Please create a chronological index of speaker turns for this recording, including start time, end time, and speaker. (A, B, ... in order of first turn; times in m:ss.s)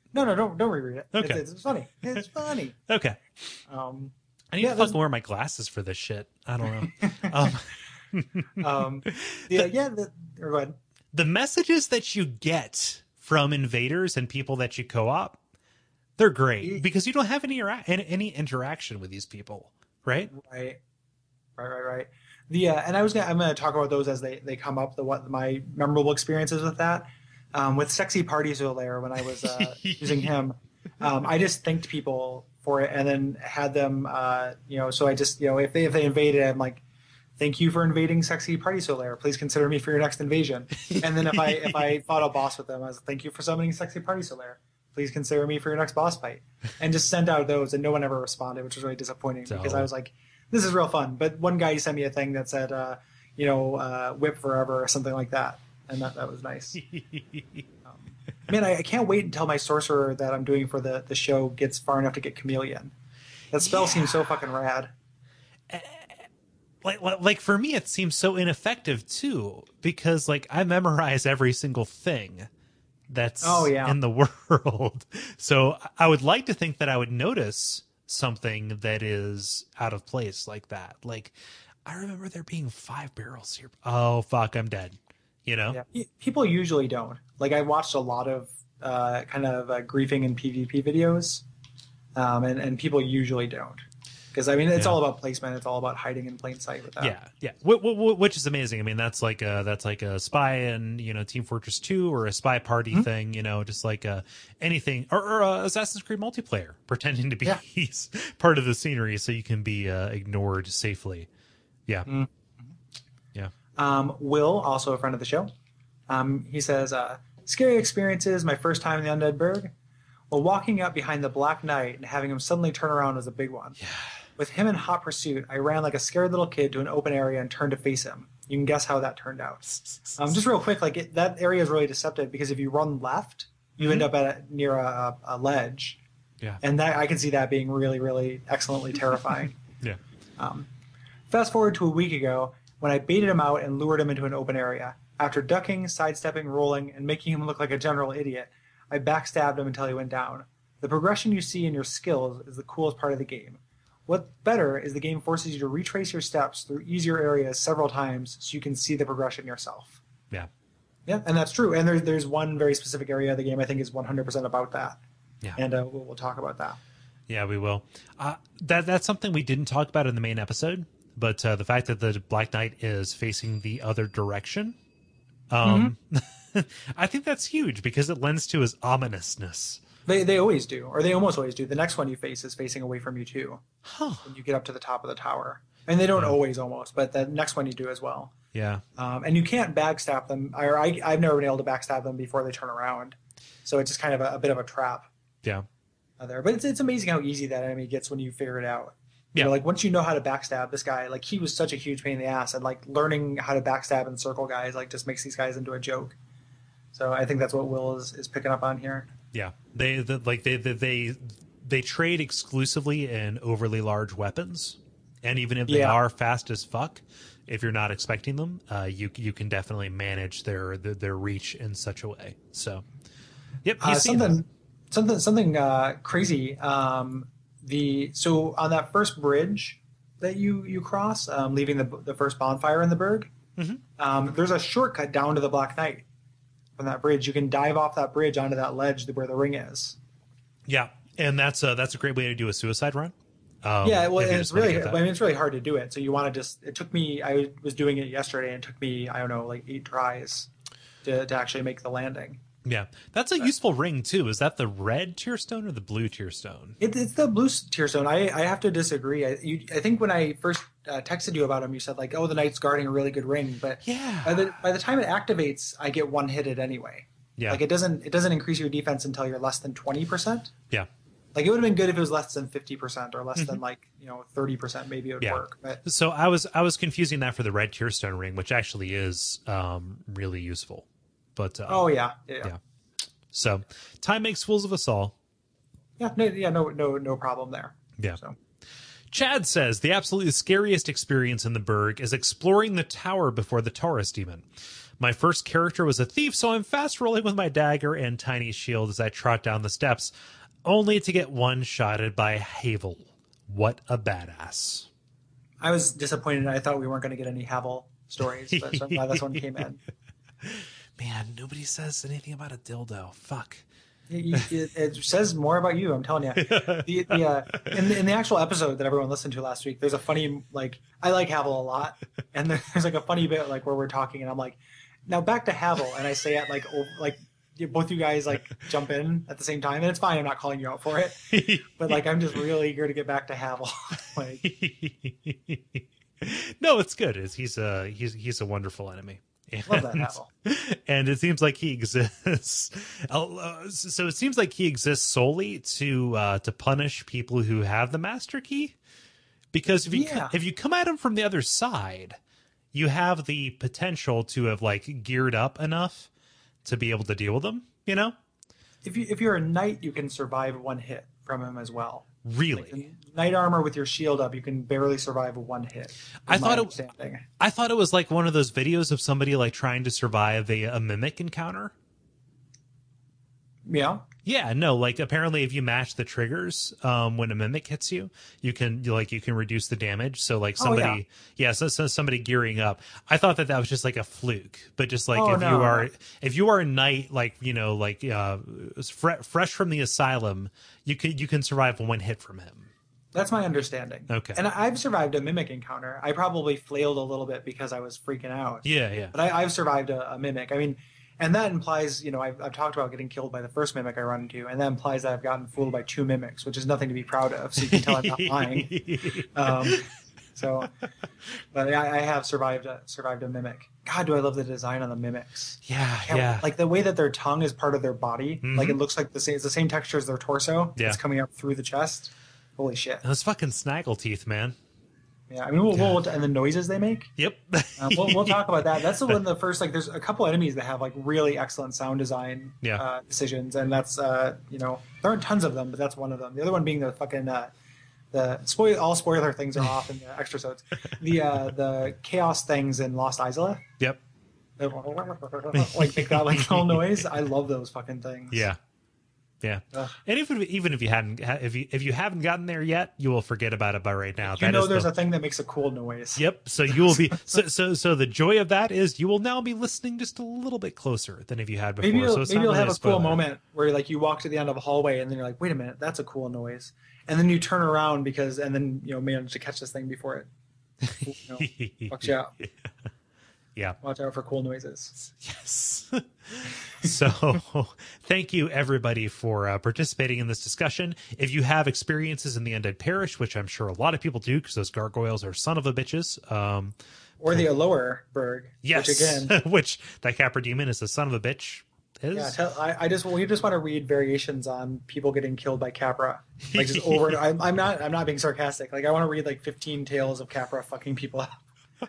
0:00.1-0:02.8 A
0:01.1-0:01.4 B
0:02.9-0:03.5 B
0:03.7-0:05.0 A
0:04.5-0:09.7 B
0:07.0-0:07.3 A
0:08.6-0:10.8 A
0:11.1-0:15.4 B
0:16.2-0:20.3 B
0:20.3-0:20.8 A
0:21.6-0:36.8 A
0:29.4-0:30.3 B
0:37.4-0:56.8 A
0:40.9-0:42.0 B
0:49.5-0:49.9 B
0:56.8-0:57.6 B
0:57.8-1:02.9 A
1:03.5-1:04.9 A
1:03.6-1:04.4 B
1:05.7-1:06.3 B
1:06.8-1:12.5 B
1:13.1-1:21.3 B
1:13.4-1:14.0 A
1:21.8-1:25.8 B
1:25.7-1:31.4 A
1:32.2-1:37.2 A
1:37.0-1:51.3 B
1:53.8-1:55.5 A
1:56.1-1:59.7 A
2:00.3-2:03.8 A
2:03.8-2:04.2 B
2:04.4-2:16.0 A
2:09.7-2:10.3 B
2:13.8-2:14.1 B
2:16.6-2:19.6 A
2:20.4-2:20.7 A
2:21.3-2:40.0 A
2:41.1-2:45.0 A
2:45.6-2:46.8 A
2:47.3-2:54.8 B
2:55.5-2:59.8 B
2:55.6-2:55.9 A
3:00.1-3:03.6 A
3:03.8-3:04.3 B
3:04.2-3:08.3 A
3:08.5-3:08.8 B
3:09.0-3:15.1 A
3:16.2-3:26.2 A
3:26.9-3:29.1 A
3:29.3-3:42.8 B
3:35.7-3:36.0 A
3:43.6-3:44.4 B
3:43.8-3:53.3 A
3:54.0-3:56.1 A
3:56.8-4:00.0 A
4:00.7-4:05.0 B
4:03.8-4:10.5 A
4:11.0-4:12.4 A
4:12.6-4:16.8 B
4:16.8-4:30.5 A
4:23.8-4:24.5 B
4:27.4-4:27.6 B
4:31.4-4:35.8 A
4:35.2-4:41.9 B
4:41.7-4:42.6 A
4:43.3-4:45.2 B
4:46.0-4:48.4 A
4:49.1-5:00.1 B
5:00.6-5:04.9 B
5:05.6-5:09.8 A
5:08.5-5:09.5 B
5:10.4-5:13.6 B
5:14.1-5:34.4 A
5:16.4-5:17.8 B
5:31.3-5:32.0 B
5:34.4-5:48.8 B
5:39.7-5:40.3 A
5:49.5-5:52.2 B
5:49.9-5:50.3 A
5:52.7-5:56.1 B
5:56.6-5:58.2 B
5:58.8-6:07.2 A
6:02.2-6:02.8 B
6:06.3-6:06.8 B
6:07.4-6:11.7 B
6:13.7-6:14.0 A
6:14.2-6:32.7 B
6:20.6-6:21.0 A
6:25.1-6:25.9 A
6:33.1-6:48.8 A
6:34.1-6:34.4 B
6:38.6-6:39.1 B
6:47.6-6:49.9 B
6:49.3-6:50.7 A
6:51.5-7:03.0 A
6:55.6-6:56.5 B
6:58.4-6:58.8 B
7:03.0-7:04.6 B
7:05.3-7:07.1 A
7:05.7-7:06.0 B
7:07.2-7:09.2 B
7:07.8-7:17.5 A
7:18.1-7:23.6 A
7:24.6-7:28.5 A
7:25.5-7:27.1 B
7:28.3-7:28.6 B
7:29.4-7:34.9 B
7:34.3-7:37.4 A
7:36.2-7:43.2 B
7:41.8-7:50.3 A
7:50.8-7:52.7 B
7:51.0-7:52.3 A
7:53.8-7:54.9 A
7:55.0-8:06.8 B
8:07.2-8:09.4 A
8:08.6-8:12.4 B
8:12.1-8:21.4 A
8:16.4-8:17.2 B